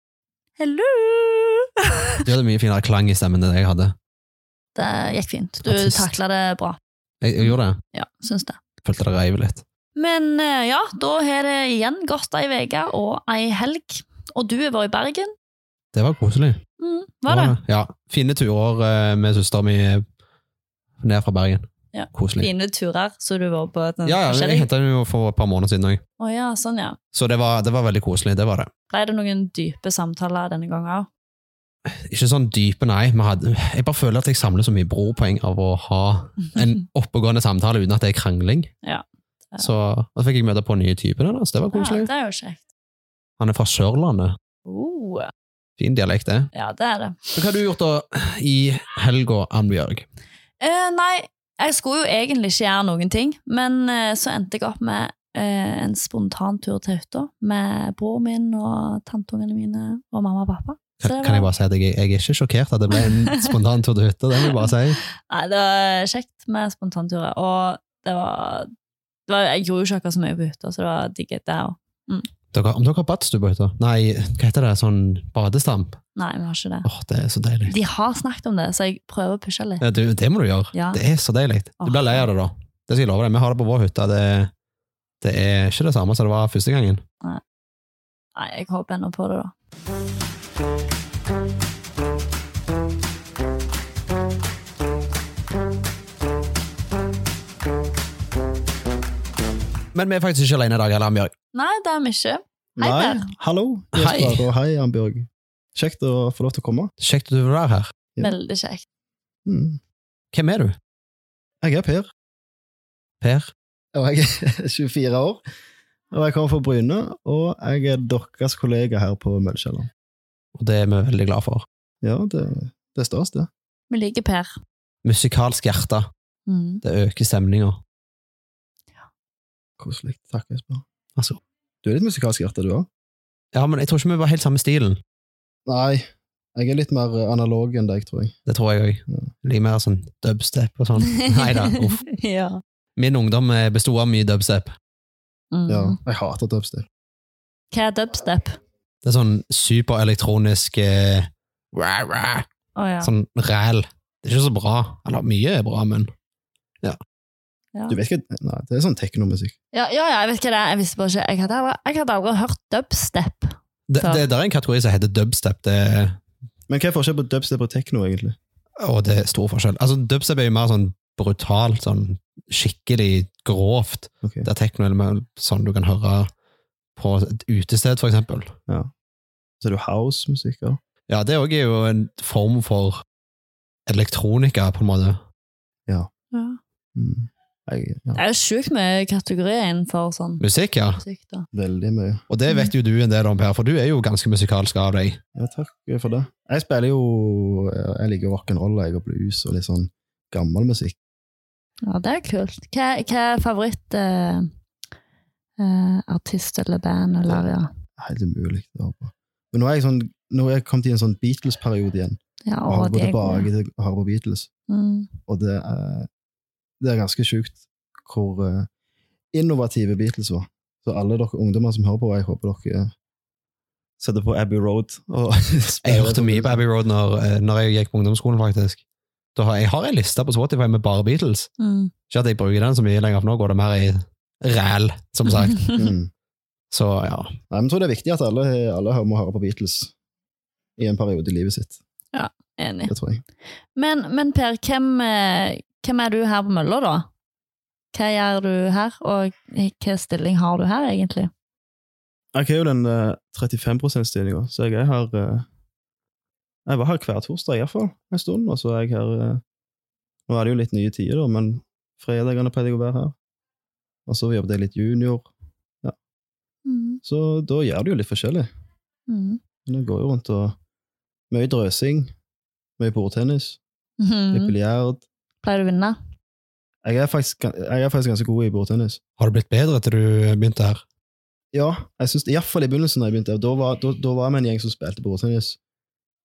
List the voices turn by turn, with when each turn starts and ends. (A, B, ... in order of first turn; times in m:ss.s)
0:00.6-0:02.2 A
0:02.2-0:04.0 B
0:04.8-0:06.8 A
0:05.6-0:06.1 B
0:07.2-0:07.8 B
0:07.4-0:08.6 A
0:08.8-0:09.6 B
0:10.0-0:15.3 A
0:15.9-0:16.6 B
0:16.8-0:17.6 A
0:17.3-0:20.0 B
0:21.0-0:22.5 B
0:21.9-0:24.7 A
0:24.0-0:26.0 B
0:26.2-0:27.0 A
0:27.1-0:28.7 B
0:28.9-0:31.1 A
0:31.9-0:38.7 B
0:38.8-0:39.7 A
0:39.6-0:42.1 B
0:41.7-0:42.7 A
0:43.4-0:44.4 B
0:44.7-0:45.3 A
0:45.8-0:46.5 B
0:46.5-0:47.2 A
0:47.3-0:50.0 B
0:50.6-1:01.5 A
1:01.0-1:05.0 B
1:03.0-1:03.5 A
1:04.4-1:08.7 A
1:09.3-1:12.3 A
1:12.5-1:16.0 B
1:16.2-1:16.9 A
1:16.8-1:17.7 B
1:17.7-1:19.8 A
1:19.8-1:24.5 B
1:20.7-1:21.0 A
1:21.8-1:22.3 A
1:25.2-1:27.0 B
1:28.4-1:29.5 A
1:39.9-1:41.3 B
1:41.5-1:43.3 A
1:42.8-1:46.9 C
1:43.9-1:44.5 B
1:47.0-1:47.9 B
1:48.2-1:48.8 A
1:49.4-1:49.8 C
1:50.3-1:50.8 B
1:51.6-1:52.1 C
1:53.2-1:53.5 B
1:53.9-1:55.4 C
1:56.1-1:59.9 C
2:00.6-2:01.7 B
2:02.0-2:03.5 C
2:03.9-2:04.6 A
2:05.0-2:06.1 B
2:06.5-2:06.8 A
2:06.8-2:07.8 B
2:09.8-2:10.8 C
2:11.8-2:12.9 C
2:13.5-2:15.0 B
2:15.7-2:18.4 C
2:18.5-2:22.0 B
2:21.0-2:22.6 A
2:23.0-2:24.8 B
2:25.5-2:26.0 A
2:25.7-2:26.9 C
2:27.7-2:28.6 A
2:29.0-2:32.5 B
2:32.8-2:33.1 A
2:33.0-2:36.1 B
2:37.9-2:39.6 C
2:39.7-2:44.2 A
2:43.9-2:46.2 B
2:46.7-2:48.4 C
2:48.8-2:56.3 B
2:57.0-2:58.5 B
2:59.6-3:00.8 C
3:01.1-3:03.0 B
3:03.9-3:05.2 B
3:06.3-3:06.6 A
3:07.0-3:08.2 C
3:08.2-3:10.4 A
3:10.4-3:11.0 B
3:11.0-3:11.5 A
3:11.5-3:12.2 C
3:12.3-3:15.2 B
3:15.4-3:21.0 C
3:21.8-3:24.5 A
3:25.6-3:27.7 A
3:28.0-3:34.5 C
3:32.5-3:33.5 A
3:34.7-3:35.1 A
3:35.3-3:36.1 C
3:36.8-3:38.7 C
3:39.3-3:42.9 C
3:44.0-3:46.6 C
3:45.8-3:48.8 B
3:49.4-3:51.5 B
3:51.6-3:51.9 A
3:52.1-3:55.8 B
3:55.4-3:55.8 A
3:55.8-3:56.1 C
3:56.7-3:57.3 B
3:57.5-3:59.9 C
4:00.8-4:01.8 C
4:02.1-4:02.9 A
4:02.9-4:03.2 C
4:03.8-4:07.1 A
4:07.9-4:11.3 A
4:12.3-4:15.5 C
4:16.7-4:19.4 C
4:20.3-4:23.2 C
4:24.1-4:25.3 C
4:26.7-4:27.0 A
4:27.0-4:28.5 C
4:29.1-4:29.4 A
4:29.7-4:30.6 C
4:31.3-4:32.1 C
4:32.8-4:33.6 C
4:34.0-4:34.5 A
4:34.3-4:35.0 C
4:35.4-4:36.0 A
4:36.8-4:39.0 C
4:39.2-4:40.8 B
4:41.5-4:45.6 C